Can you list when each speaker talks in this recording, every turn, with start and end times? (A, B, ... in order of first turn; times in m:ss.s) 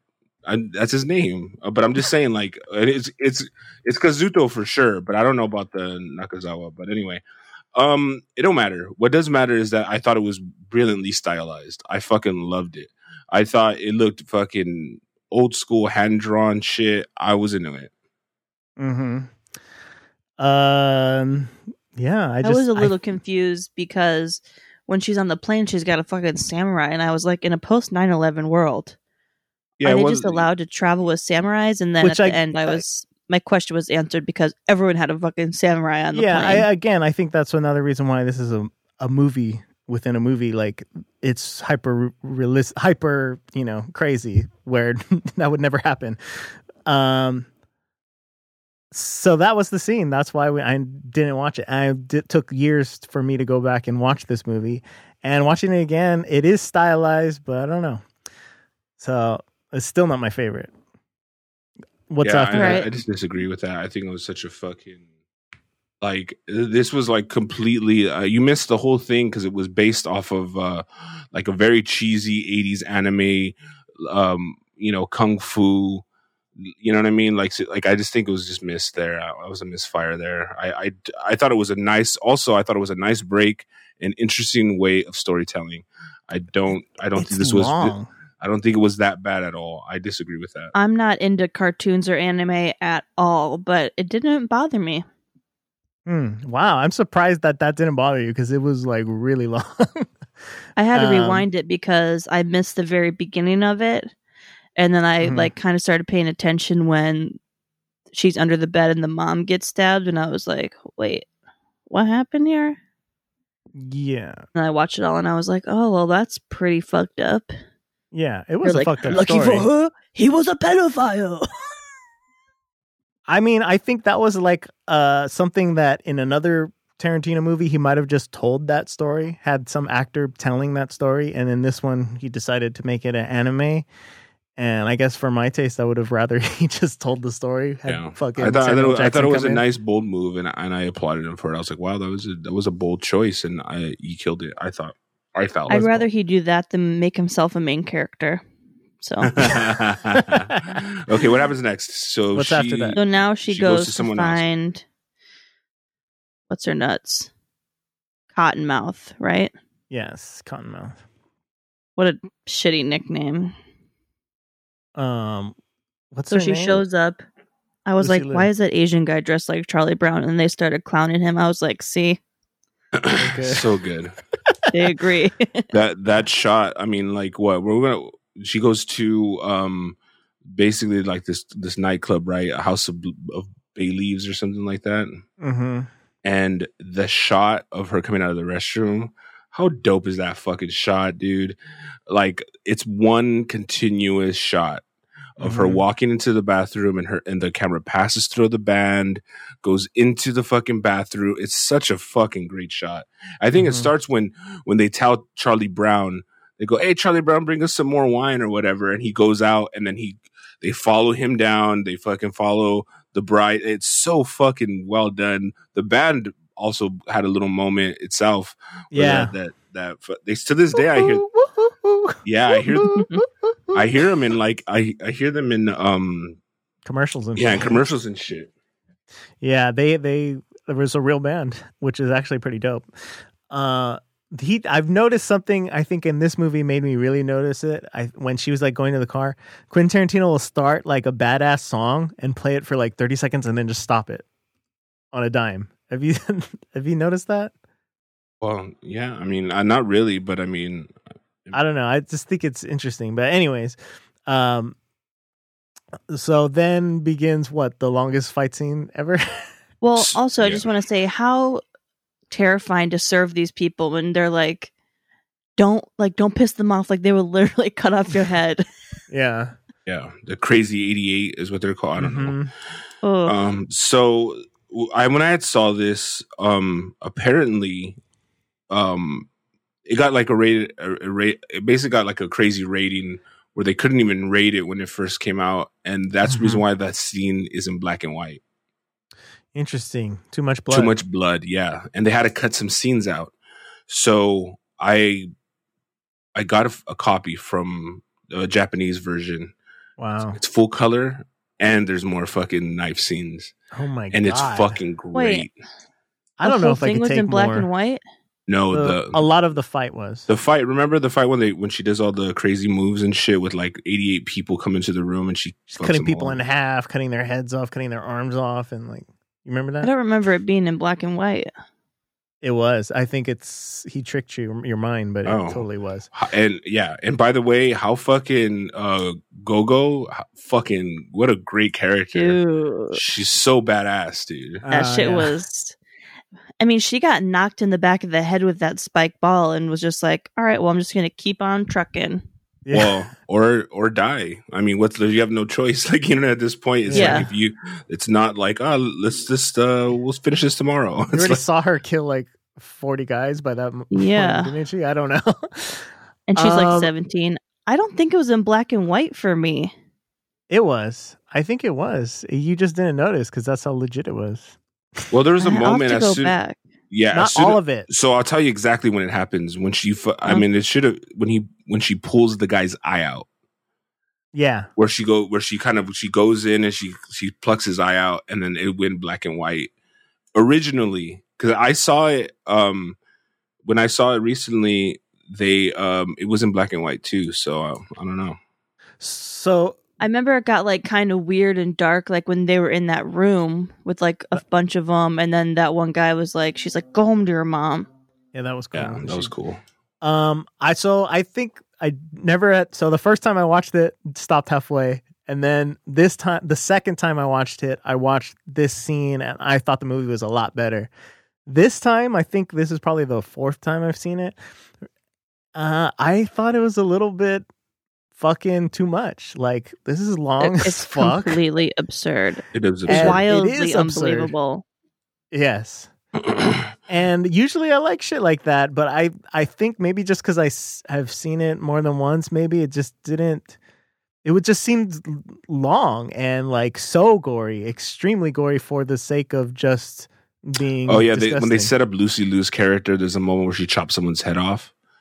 0:00.4-0:07.2 A
0:07.7-0:17.9 A
0:18.8-0:19.3 B
0:20.4-0:23.0 B
0:22.4-0:29.0 C
0:29.8-0:30.4 A
0:29.8-0:36.7 C
0:32.0-0:32.8 B
0:36.1-0:46.2 B
0:46.8-0:47.5 B
0:48.9-0:58.0 B
0:59.0-1:00.7 B
1:02.1-1:02.9 B
1:02.2-1:05.0 A
1:02.5-1:02.8 C
1:06.0-1:16.0 A
1:16.6-1:30.7 A
1:27.1-1:28.1 B
1:30.7-1:35.0 C
1:36.0-1:40.1 B
1:40.8-1:44.1 C
1:40.9-1:41.4 B
1:44.8-1:47.4 C
1:45.2-1:45.5 B
1:48.1-1:51.3 C
1:51.9-1:52.8 C
1:53.7-1:54.4 B
1:54.6-1:57.5 C
1:58.1-1:59.7 B
1:58.6-2:01.4 C
2:03.3-2:13.9 B
2:14.6-2:19.6 B
2:17.8-2:26.0 A
2:25.7-2:28.4 C
2:29.0-2:29.3 C
2:29.3-2:34.4 A
2:30.2-2:30.8 B
2:32.3-2:33.0 B
2:32.9-2:34.8 C
2:36.5-2:37.3 C
2:38.3-2:39.5 C
2:39.9-2:41.0 B
2:42.0-2:43.5 C
2:45.0-2:45.6 B
2:46.1-2:46.8 B
2:46.3-2:47.2 C
2:47.8-2:52.2 C
2:48.0-2:48.5 B
2:53.0-2:54.1 A
2:53.2-2:53.7 B
2:54.7-2:55.6 C
2:55.7-3:05.2 A
3:05.4-3:05.9 B
3:06.2-3:11.6 A
3:12.1-3:14.8 A
3:15.4-3:41.2 A
3:15.4-3:15.8 B
3:23.5-3:23.9 B
3:38.9-3:39.3 B
3:40.7-3:43.8 B
3:42.2-3:43.0 A
3:43.7-3:46.4 A
3:46.8-3:47.9 B
3:47.4-3:48.5 A
3:49.4-3:52.9 B
3:53.5-4:04.2 B
4:05.1-4:07.5 B
4:08.4-4:10.9 A
4:11.5-4:14.8 B
4:16.1-4:19.5 B
4:19.8-4:21.6 C
4:20.0-4:20.6 A
4:22.3-4:24.7 C
4:25.6-4:28.6 C
4:29.1-4:29.5 B
4:29.9-4:32.4 A
4:32.0-4:32.5 B
4:33.0-4:33.3 C
4:33.2-4:38.0 A
4:38.7-4:39.3 A
4:39.9-4:48.4 A
4:46.2-4:46.6 B
4:49.5-4:50.9 B
4:50.7-4:53.3 A
4:53.9-4:55.3 A
4:56.3-4:59.5 A
5:00.0-5:00.4 B
5:00.3-5:03.5 A
5:03.7-5:04.8 B
5:04.1-5:05.5 A
5:05.1-5:05.4 C
5:06.4-5:07.7 B
5:06.4-5:08.0 C
5:08.5-5:09.2 A
5:08.7-5:10.3 B
5:10.3-5:16.4 A
5:15.7-5:19.9 B
5:19.8-5:21.5 C
5:22.4-5:26.1 B
5:25.2-5:32.4 A
5:32.1-5:33.0 C
5:32.9-5:34.6 A
5:34.6-5:35.3 B
5:34.7-5:35.8 C
5:36.6-5:42.2 C
5:42.6-5:43.0 B
5:42.7-5:51.4 A
5:46.9-5:47.3 B
5:46.9-5:47.2 C
5:51.1-5:56.9 B
5:53.9-5:54.5 C
5:56.3-5:59.7 C
6:00.5-6:04.6 B
6:05.1-6:06.3 A
6:05.4-6:06.6 C
6:06.9-6:13.3 A
6:07.1-6:07.9 B
6:14.3-6:14.7 B
6:14.8-6:19.7 A
6:20.3-6:23.0 A
6:23.6-6:28.4 A
6:29.0-6:29.8 B
6:30.0-6:37.9 C
6:38.3-6:39.3 B
6:38.7-6:39.6 A
6:40.0-6:50.9 B
6:51.4-6:54.4 B
6:55.5-6:57.5 B
6:58.1-7:01.4 B
7:00.4-7:04.6 C
7:02.5-7:03.2 A
7:02.9-7:04.3 B
7:05.3-7:05.9 B
7:06.2-7:06.7 A
7:06.9-7:13.6 B
7:14.2-7:21.7 B
7:20.9-7:24.7 A